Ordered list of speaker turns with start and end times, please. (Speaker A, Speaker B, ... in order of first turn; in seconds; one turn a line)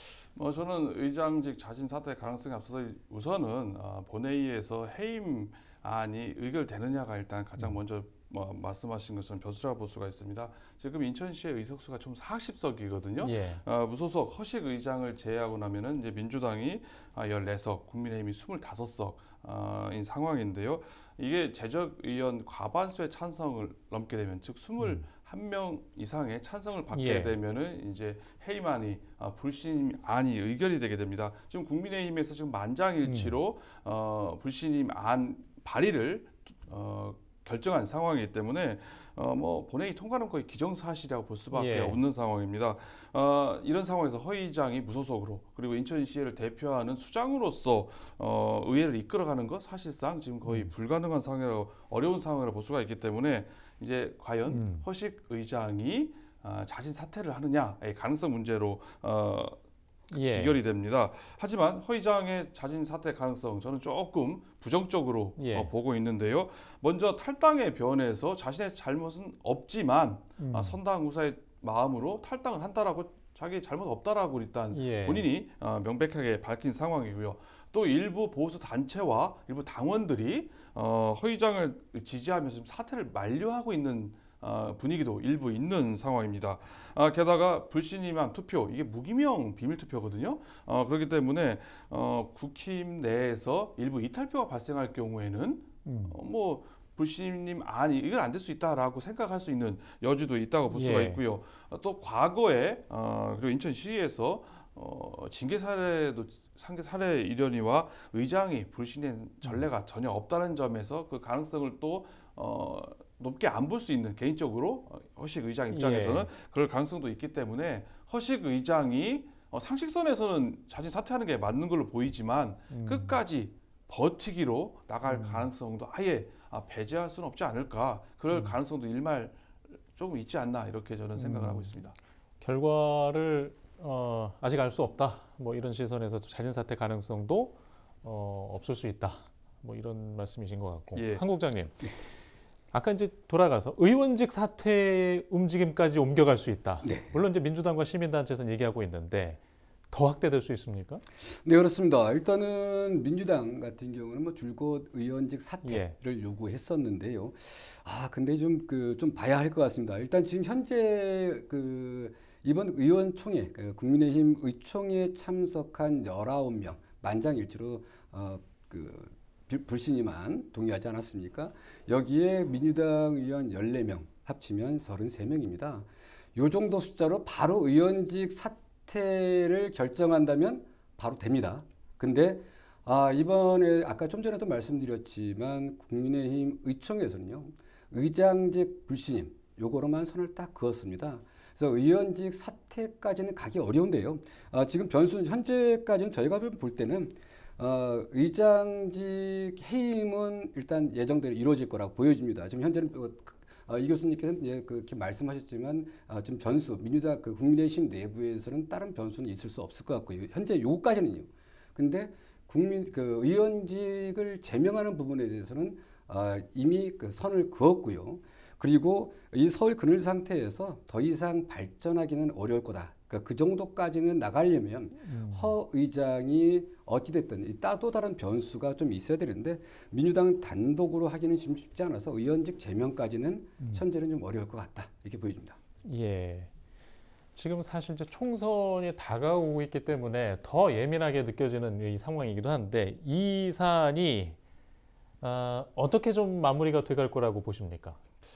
Speaker A: 0.2-59.6
Speaker B: 13.2-13.6
Speaker B: 26.9-27.4
Speaker B: 33.0-33.4
Speaker B: 41.5-42.0
Speaker B: 50.5-50.7
Speaker B: 54.5-54.9
Speaker B: 60.1-60.6
Speaker A: 60.2-129.4
Speaker B: 65.4-65.7
Speaker B: 70.4-70.8
Speaker B: 74.7-75.3
Speaker B: 95.8-96.2
Speaker B: 100.7-101.2
Speaker B: 115.7-116.3
Speaker B: 122.7-123.2
Speaker B: 125.1-125.5
Speaker A: 129.9-131.9
Speaker B: 131.2-131.7
Speaker B: 132.4-142.0
Speaker A: 140.9-141.2
Speaker B: 142.7-151.0
Speaker C: 146.8-147.2
Speaker C: 151.2-235.6
Speaker B: 155.6-155.9
Speaker B: 225.1-225.6
Speaker B: 235.8-236.5
Speaker B: 237.3-244.4
Speaker B: 245.2-248.0